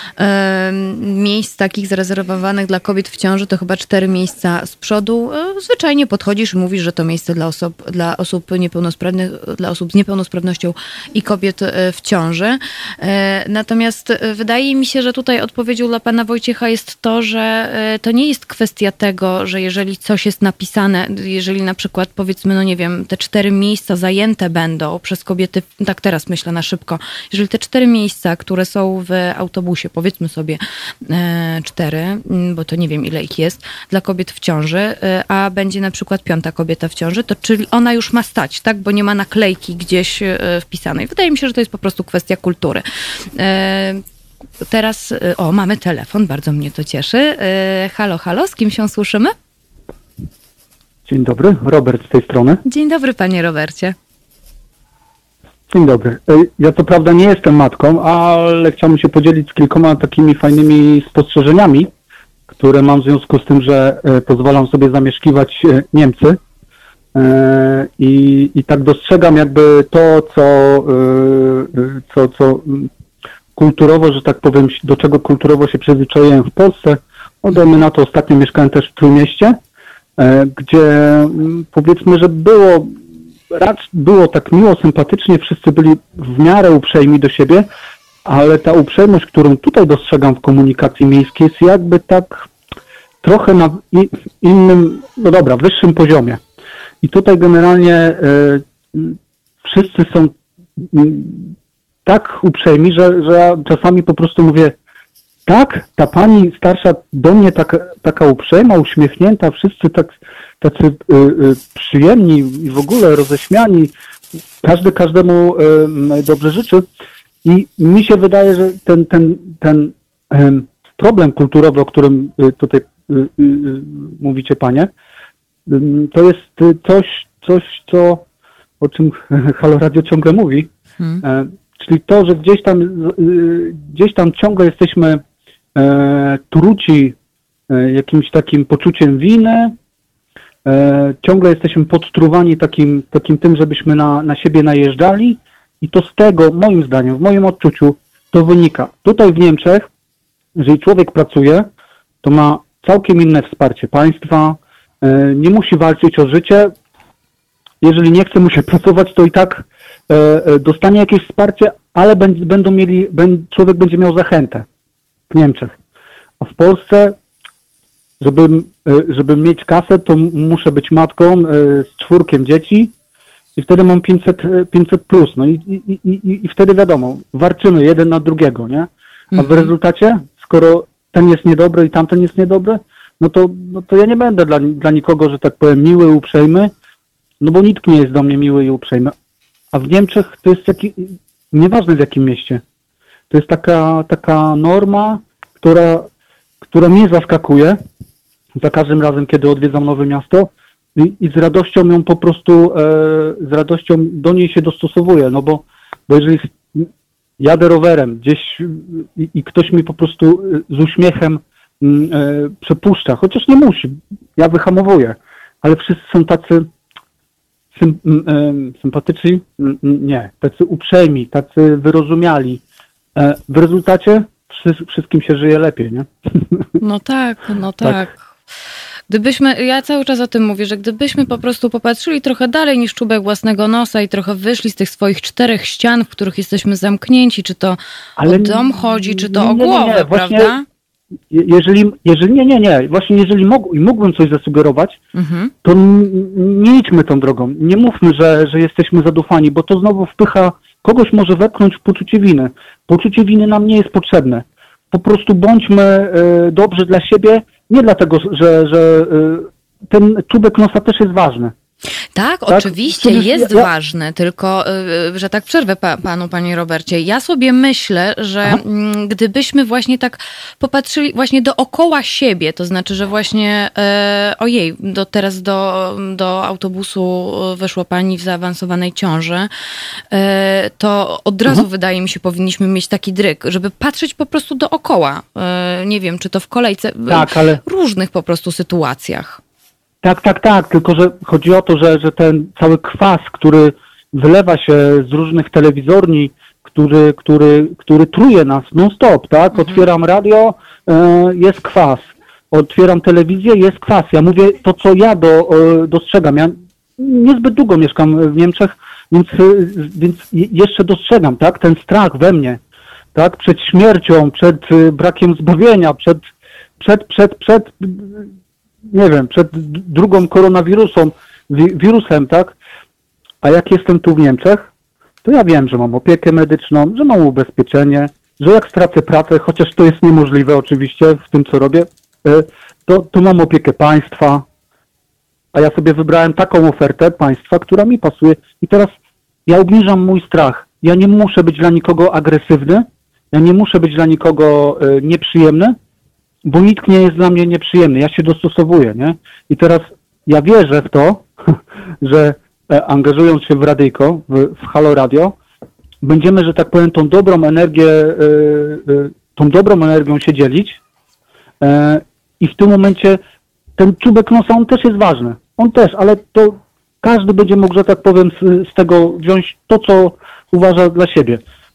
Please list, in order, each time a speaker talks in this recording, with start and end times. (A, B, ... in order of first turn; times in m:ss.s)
0:00.2-0:44.0 A
0:44.6-0:49.3 A
0:51.0-0:52.6 B
0:52.6-0:54.0 A
0:55.7-1:01.9 B
1:02.5-1:06.4 B
1:07.1-1:12.9 B
1:13.6-1:19.6 B
1:20.2-1:22.9 B
1:23.5-1:27.7 B
1:28.2-1:32.5 B
1:33.2-1:36.4 B
1:37.0-1:41.5 B
1:42.0-1:44.8 B
1:45.5-1:53.9 B
1:54.6-1:56.8 B
1:57.4-2:04.9 B
2:05.7-2:08.2 B
2:08.8-2:10.7 B
2:11.0-2:11.2 A
2:11.2-2:15.2 B
2:15.8-2:17.2 B
2:17.7-2:19.8 B
2:20.6-2:29.9 B
2:30.6-2:31.7 B
2:32.2-2:36.7 B
2:37.8-2:44.6 B
2:45.3-2:45.7 B
2:46.4-2:47.2 B
2:48.2-2:52.9 B
2:53.6-3:06.7 B
2:59.3-2:59.7 A
3:07.4-3:09.1 B
3:09.7-3:12.6 B
3:13.3-3:16.1 B
3:16.6-3:17.8 B
3:18.6-3:36.7 B
3:37.7-3:42.6 B
3:43.2-3:46.6 B
3:46.8-3:48.2 A
3:49.1-4:00.6 A
3:58.2-4:00.5 B
4:01.3-4:05.0 B
4:05.1-4:05.5 A
4:05.6-4:21.5 B
4:22.1-4:39.5 A
4:22.5-4:23.7 B
4:40.1-4:49.4 A
4:47.1-4:47.6 B
4:50.0-5:12.6 B
4:59.5-4:59.8 A
5:13.1-5:16.2 B
5:16.8-5:18.3 B
5:18.9-5:22.6 B
5:23.4-5:24.7 B
5:25.2-5:34.4 B
5:35.5-5:38.9 B
5:39.4-5:45.8 B
5:46.4-5:51.3 B
5:52.0-5:55.4 B
5:56.0-6:00.8 B
6:01.6-6:03.2 B
6:03.8-6:11.4 B